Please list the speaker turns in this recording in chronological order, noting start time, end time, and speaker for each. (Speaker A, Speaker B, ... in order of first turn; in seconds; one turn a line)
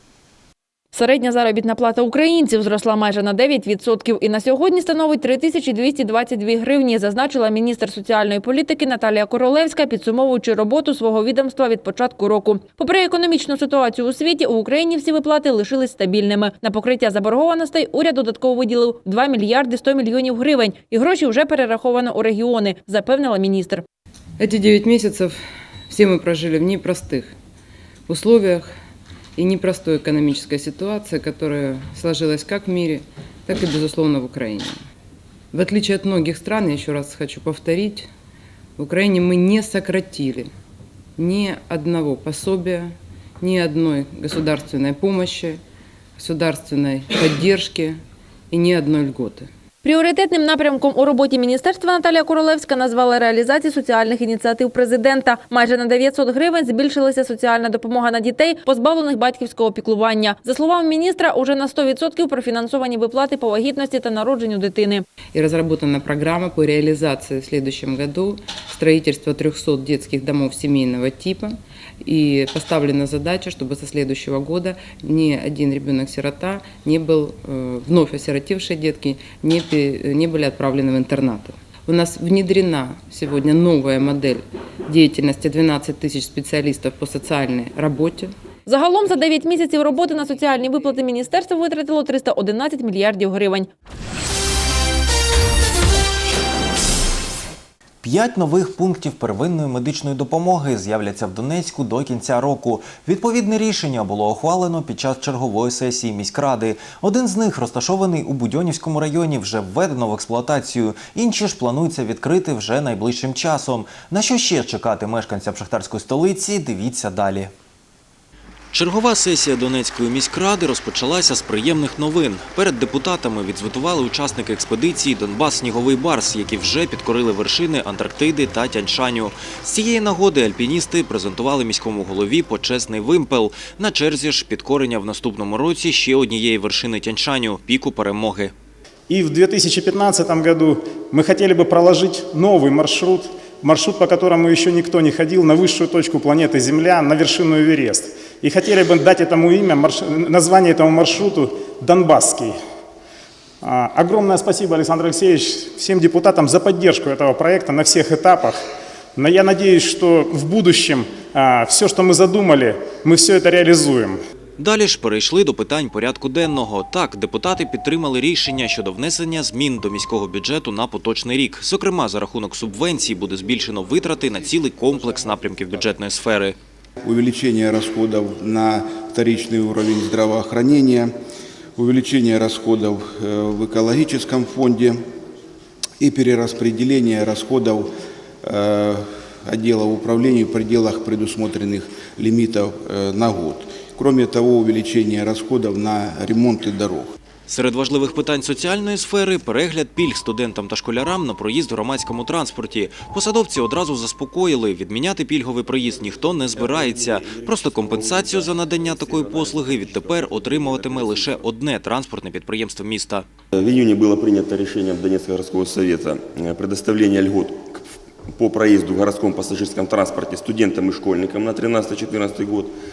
Speaker A: 0.9-23.8
Speaker B: 24.4-25.4
Speaker B: 25.9-27.3
Speaker B: 28.1-28.7
Speaker B: 29.4-34.8
Speaker B: 35.5-38.1
Speaker B: 38.8-40.5
Speaker B: 41.2-45.6
Speaker B: 46.2-48.0
Speaker B: 48.5-49.5
Speaker A: 49.8-65.0
Speaker B: 65.3-88.3
Speaker A: 88.7-93.7
Speaker C: 98.0-117.5
Speaker C: 118.7-138.5
Speaker D: 139.1-152.5
Speaker D: 153.6-158.6
Speaker D: 159.2-164.2
Speaker C: 164.6-176.6
Speaker E: 177.0-181.1
Speaker E: 181.8-185.0
Speaker E: 186.0-187.9
Speaker E: 188.4-197.1
Speaker C: 197.5-213.2
Speaker F: 206.6-211.4
Speaker F: 213.5-222.7